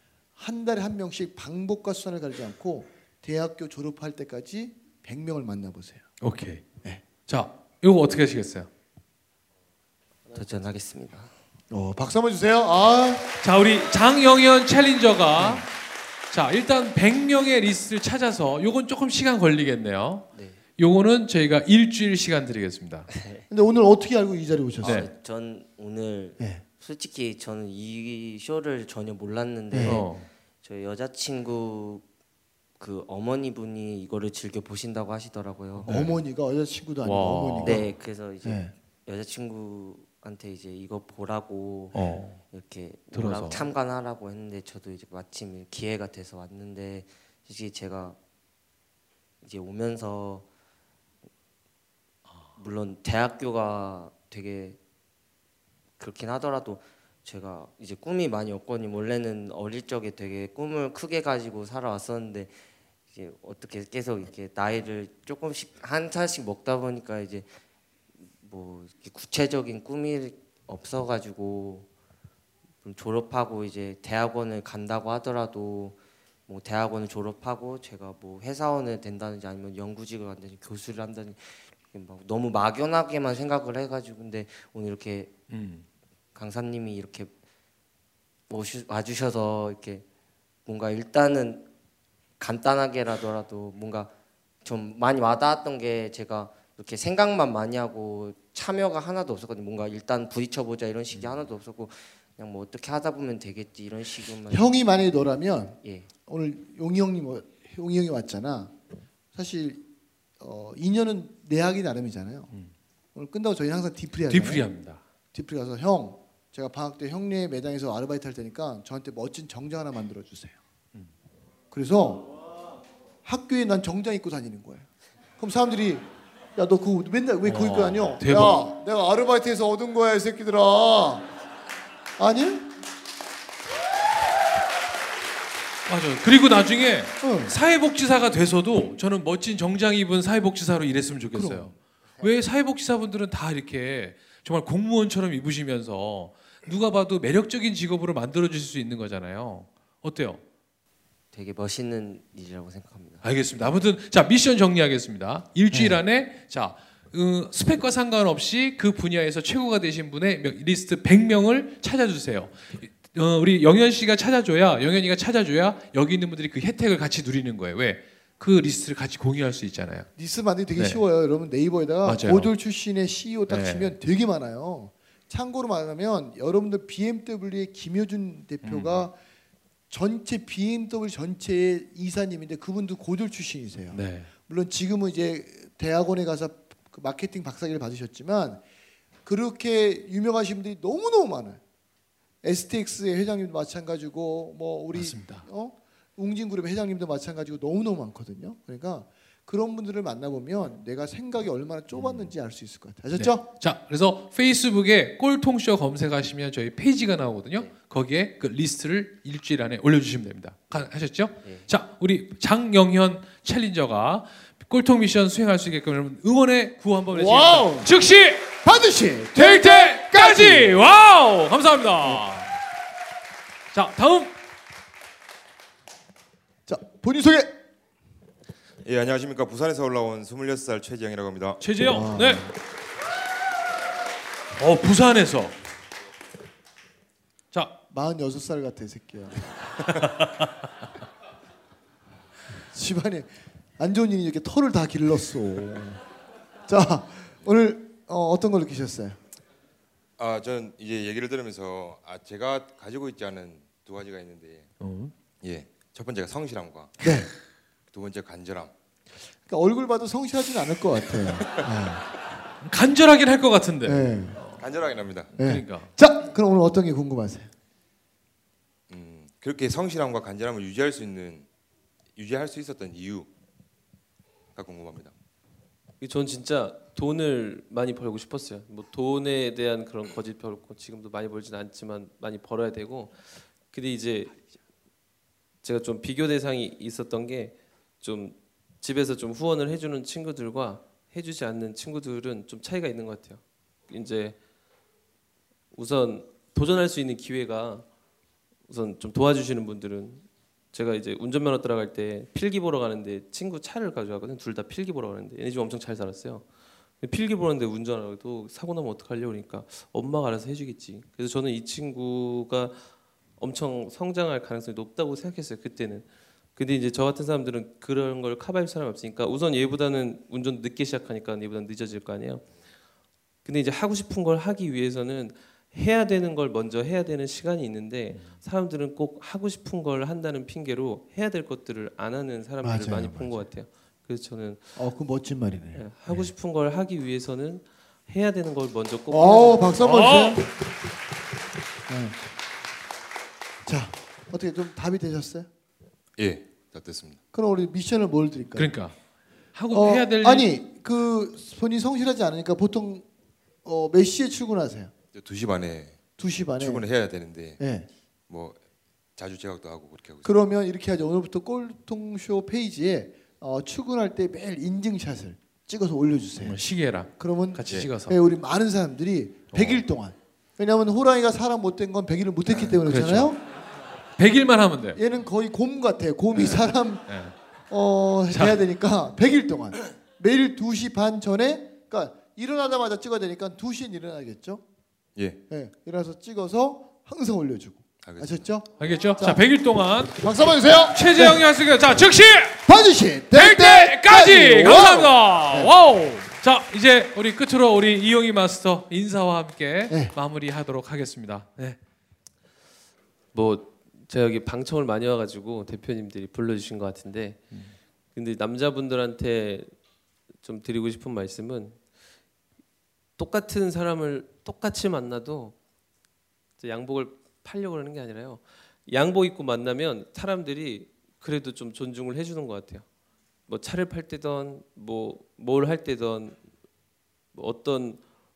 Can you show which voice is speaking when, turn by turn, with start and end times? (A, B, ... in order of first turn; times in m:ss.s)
0:00.4-0:06.0 A
0:06.2-0:06.7 B
0:07.2-0:08.7 B
0:10.3-0:10.6 A
0:10.3-0:11.3 C
0:11.7-0:13.3 A
0:13.4-0:15.7 B
0:15.4-0:15.6 A
0:16.3-0:23.1 B
0:20.3-0:20.6 C
0:23.2-0:23.4 C
0:23.5-0:25.1 A
0:24.8-0:32.0 C
0:24.8-0:25.1 B
0:26.4-0:26.6 A
0:29.7-0:30.0 A
0:29.8-0:30.3 B
0:32.8-0:35.9 C
0:35.8-0:37.9 A
0:35.8-0:36.1 B
0:37.0-0:37.8 B
0:37.6-0:48.2 C
0:38.4-0:38.7 A
0:41.9-0:42.4 B
0:43.1-0:43.7 B
0:49.4-0:50.4 C
0:52.6-0:54.8 C
0:56.0-1:02.5 C
1:03.1-1:07.5 C
1:08.4-1:11.9 C
1:12.8-1:25.3 C
1:25.5-1:25.8 B
1:26.4-1:27.3 C
1:28.5-1:30.0 C
1:30.6-1:31.7 C
1:32.4-1:34.1 C
1:34.6-1:44.7 C
1:44.5-1:48.8 A
1:49.3-1:49.8 A
1:50.4-1:52.5 A
1:53.1-1:54.6 A
1:54.3-1:55.0 B
1:55.3-2:00.6 A
2:01.7-2:02.3 A
2:03.2-2:04.9 A
2:05.4-2:11.3 A
2:07.4-2:08.6 B
2:12.2-2:12.7 A
2:15.9-2:30.4 B
2:17.2-2:17.5 A
2:21.3-2:21.7 A
2:31.3-2:33.2 C
2:33.2-2:50.1 B
2:35.7-2:36.0 A
2:50.2-2:59.2 A
2:50.8-2:51.0 B
2:52.0-2:52.5 B
2:53.5-2:53.9 B
2:58.6-2:59.0 B
2:59.9-3:08.6 A
3:03.9-3:04.3 B
3:09.2-3:11.6 A
3:12.4-3:23.4 A
3:14.9-3:15.4 B
3:23.2-3:38.6 B
3:31.4-3:31.7 C
3:37.1-3:37.9 A
3:38.6-3:40.8 A
3:39.3-3:42.5 B
3:43.7-3:44.3 B
3:46.7-3:47.5 A
3:48.8-3:51.6 D
3:51.6-3:52.5 B
3:51.8-3:52.5 A
3:54.6-3:55.5 B
3:57.9-3:59.8 A
4:00.0-4:00.5 B
4:02.7-4:06.0 A
4:06.7-4:09.2 A
4:10.2-4:14.7 D
4:14.8-4:15.1 B
4:15.4-4:17.1 D
4:17.0-4:17.3 A
4:17.9-4:18.7 D
4:19.3-4:22.0 A
4:22.6-4:24.6 B
4:23.8-4:24.4 A
4:24.6-4:25.3 D
4:25.3-4:25.9 B
4:25.4-4:27.5 A
4:28.9-4:31.5 D
4:32.1-4:33.3 D
4:34.5-4:35.1 D
4:36.0-4:44.4 E
4:45.6-4:54.4 E
4:55.7-4:57.9 E
4:58.7-5:06.5 E
5:07.0-5:12.8 E
5:13.4-5:22.4 E
5:23.4-5:34.8 E
5:32.6-5:33.5 A
5:34.8-5:35.8 A
5:35.7-5:39.8 E
5:39.1-5:40.5 A
5:39.8-5:40.4 B
5:41.9-5:42.2 A
5:43.6-5:45.5 A
5:46.2-5:47.2 D
5:47.3-5:48.7 A
5:48.6-5:49.0 B
5:49.5-5:50.5 B
5:49.7-5:53.1 A
5:53.6-5:54.9 A
5:55.1-5:56.0 D
5:56.2-5:56.8 A
5:56.6-5:57.6 D
5:57.6-5:57.9 A
5:58.3-5:58.6 D
5:59.2-6:00.3 D
6:00.2-6:06.6 A
6:06.4-6:08.2 B
6:07.2-6:13.4 A
6:07.7-6:07.9 D
6:09.5-6:09.8 B
6:12.6-6:13.3 B
6:14.2-6:15.0 B
6:15.0-6:17.1 A
6:16.3-6:17.3 B
6:17.7-6:24.6 A
6:18.3-6:18.6 B
6:25.5-6:29.4 A
6:28.0-6:28.4 D
6:28.8-6:32.6 B
6:30.2-6:31.4 A
6:32.6-6:35.7 A
6:33.3-6:41.8 B
6:39.9-6:40.1 A
6:43.3-6:47.4 E
6:48.1-6:49.7 E
6:50.4-6:51.8 E
6:53.2-6:55.5 E
6:56.6-7:02.8 E
7:03.5-7:06.4 E
7:07.3-7:08.0 E